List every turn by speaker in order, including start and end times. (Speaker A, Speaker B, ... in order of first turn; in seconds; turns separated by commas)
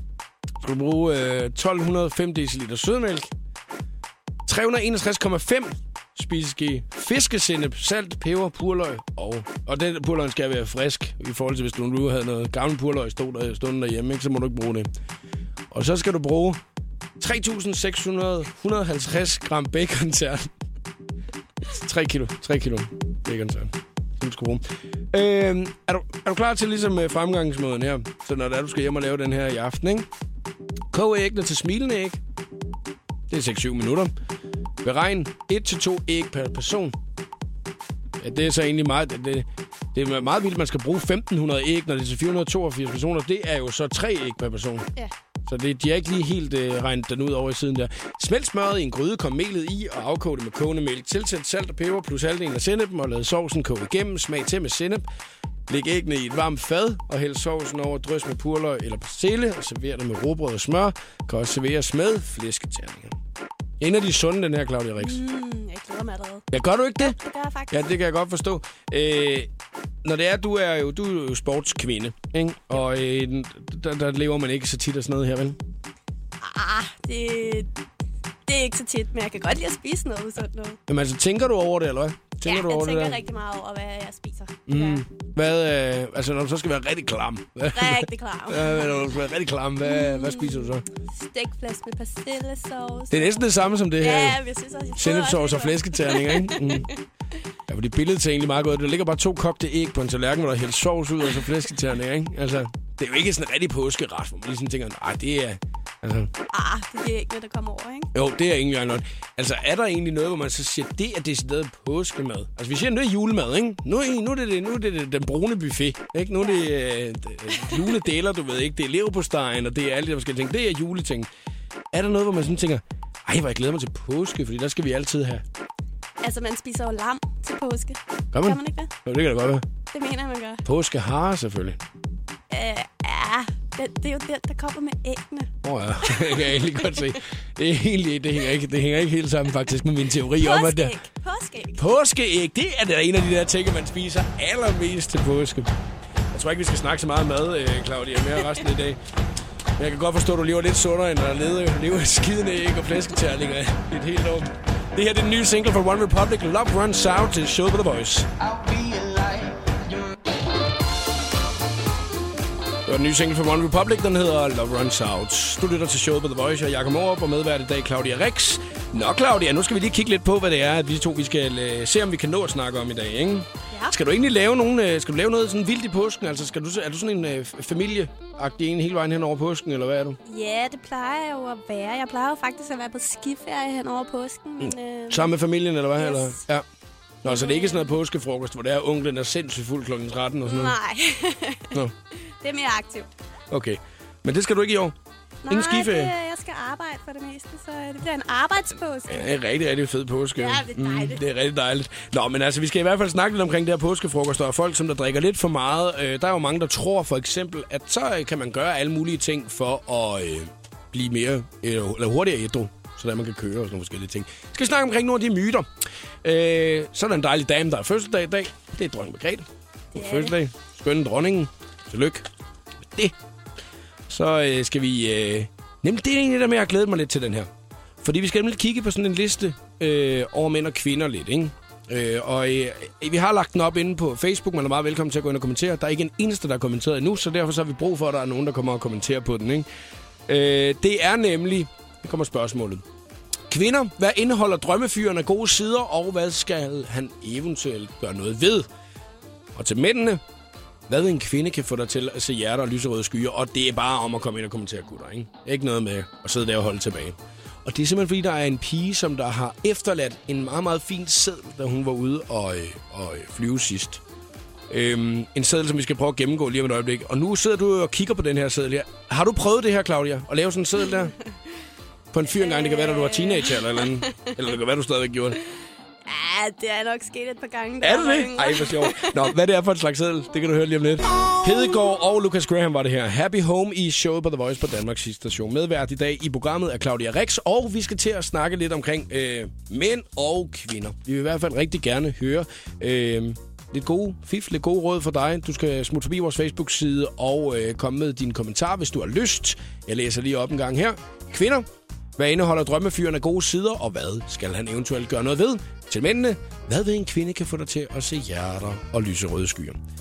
Speaker A: 0.6-3.3, Speaker A: 4.5-14.9, Speaker A: 15.7-16.6, Speaker A: 17.2-20.5, Speaker A: 21.6-30.1, Speaker A: 30.9-32.2, Speaker A: 33.3-34.1, Speaker A: 34.8-37.0, Speaker A: 38.2-44.9, Speaker A: 45.5-55.0, Speaker A: 55.7-63.1, Speaker A: 63.8-65.2, Speaker B: 65.0-66.5, Speaker A: 66.5-67.2, Speaker B: 67.0-67.8, Speaker A: 67.7-69.5, Speaker A: 70.0-75.6, Speaker B: 76.4-77.7, Speaker B: 78.5-80.8, Speaker A: 80.9-83.2, Speaker B: 82.4-85.0, Speaker A: 84.7-90.8, Speaker B: 87.7-88.9, Speaker B: 89.8-96.9, Speaker A: 93.1-94.4, Speaker A: 94.9-96.9, Speaker A: 97.7-106.3, Speaker B: 106.5-108.1, Speaker A: 108.1-121.3, Speaker B: 116.4-116.7, Speaker A: 121.9-125.4, Speaker B: 126.2-128.9, Speaker A: 128.3-129.6, Speaker B: 129.9-130.6, Speaker A: 130.6-131.8, Speaker B: 132.5-135.5, Speaker A: 135.6-140.9, Speaker B: 136.0-137.1, Speaker B: 140.4-141.8, Speaker A: 141.8-145.7, Speaker A: 146.3-149.0, Speaker A: 149.8-158.3, Speaker A: 162.8-180.2, Speaker B: 180.3-185.3, Speaker A: 184.6-186.6, Speaker B: 186.0-186.4, Speaker A: 187.2-190.8, Speaker B: 187.2-187.9, Speaker B: 190.4-191.8, Speaker B: 192.4-193.1, Speaker A: 193.5-194.9, Speaker B: 195.4-199.2, Speaker A: 195.5-196.1, Speaker A: 199.1-215.7, Speaker B: 200.3-201.2, Speaker A: 216.2-222.3, Speaker B: 219.9-220.3, Speaker A: 224.1-227.5, Speaker A: 228.0-239.7, Speaker A: 240.3-242.8, Speaker A: 243.5-248.7, Speaker A: 249.5-250.2, Speaker A: 250.9-264.0, Speaker A: 264.7-271.1, Speaker A: 272.1-275.4, Speaker B: 272.3-274.3, Speaker B: 276.1-279.2, Speaker A: 277.8-301.6, Speaker A: 302.2-309.8